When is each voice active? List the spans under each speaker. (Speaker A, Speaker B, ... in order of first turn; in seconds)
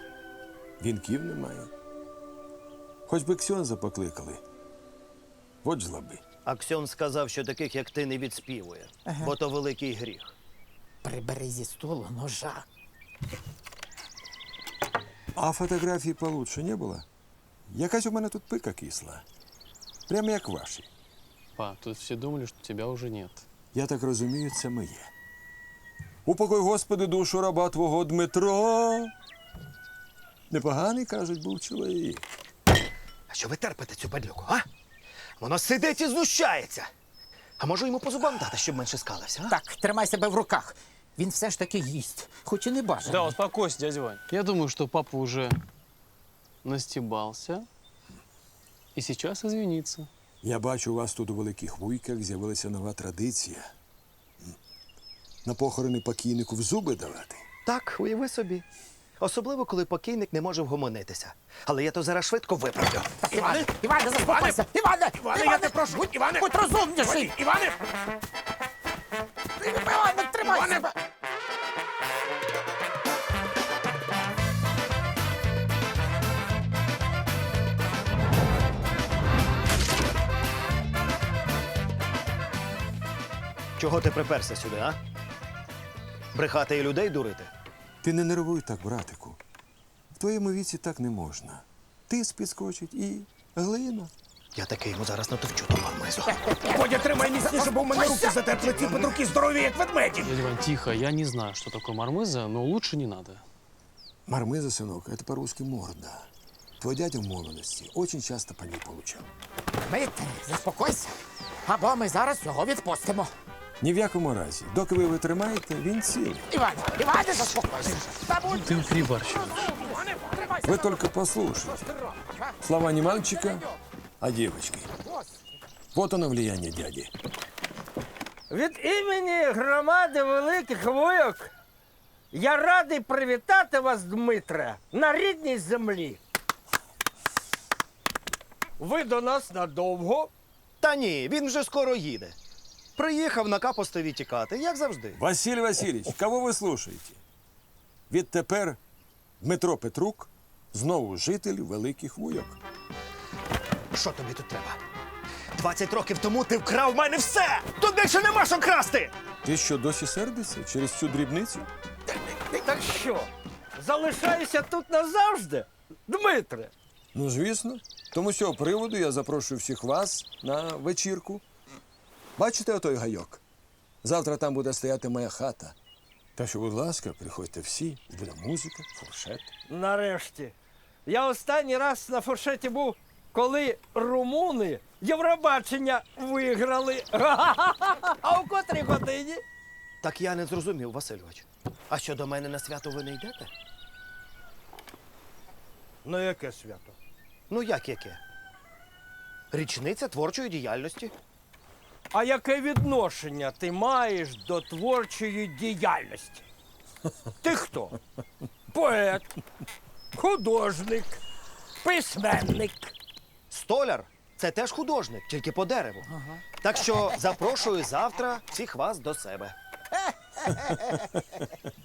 Speaker A: 0.8-1.7, 3.1-4.4, 5.6-6.2, 15.3-17.1, 17.7-19.3, 20.1-20.9, 23.7-25.1, 26.3-29.1, 30.5-32.2, 50.4-53.7, 55.4-57.5, 88.0-89.4, 90.1-94.1, 104.3-109.3, 113.8-116.5, 120.6-121.8, 122.6-123.6, 124.2-124.9, 125.9-127.1, 145.2-147.2, 148.1-148.8, 149.4-152.6, 159.4-161.7, 167.1-171.4, 172.4-173.4, 174.0-175.8, 176.4-179.5, 220.7-221.1
Speaker B: 6.5-10.3, 33.3-34.7, 35.4-36.9, 37.6-39.6, 57.7-58.6, 59.2-63.5, 83.8-85.0, 86.3-87.5, 94.5-96.4, 140.8-142.4, 143.0-145.2, 153.9-154.8, 155.6-159.1, 190.0-193.5, 197.5-198.2, 199.5-201.1, 213.5-216.1, 216.6-219.6
Speaker C: 9.1-9.3, 11.0-12.7, 39.5-43.4, 63.2-67.7, 69.6-70.9, 109.9-111.1, 111.7-113.3, 116.5-118.7
Speaker D: 21.6-23.5, 43.1-45.6, 46.6-47.7, 49.0-50.1, 100.2-103.4, 118.5-119.6
Speaker E: 64.2-64.5, 65.3-66.5, 67.1-67.3, 70.4-70.7, 96.6-100.3
Speaker F: 128.5-131.5, 132.3-136.2, 138.8-140.3, 162.5-166.7, 179.7-180.6, 181.1-189.4, 196.1-196.9, 202.1-206.4, 207.4-208.0, 208.7-209.3, 210.2-211.2, 211.8-212.9